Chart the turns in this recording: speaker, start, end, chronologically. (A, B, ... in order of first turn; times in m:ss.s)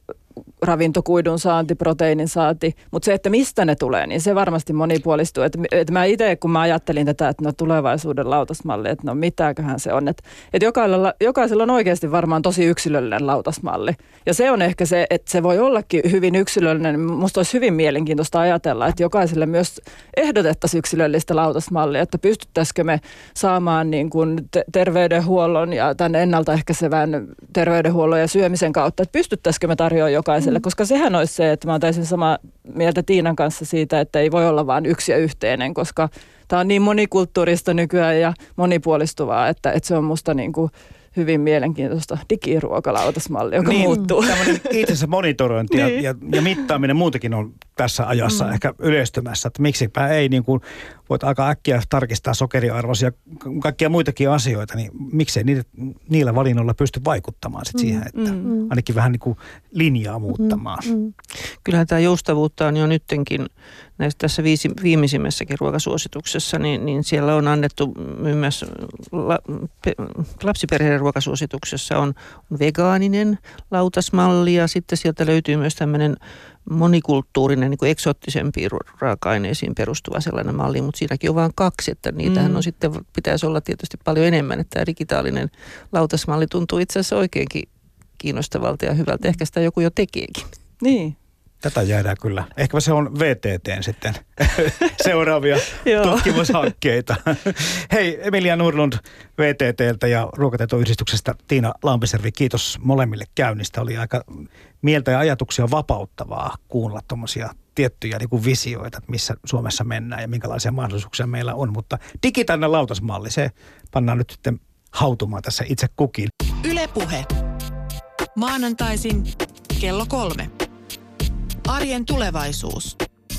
0:00.6-0:44.7 A
0:43.6-1:00.9 B
0:45.7-0:46.0 A
0:58.1-0:58.5 A
1:01.6-1:03.5 C
1:04.0-1:27.7 C
1:22.3-1:22.6 A
1:28.2-1:30.5 C
1:30.8-1:31.2 A
1:31.6-1:56.3 B
1:35.8-1:36.5 A
1:56.6-1:57.4 D
1:58.3-2:00.5 D
2:01.6-2:03.0 D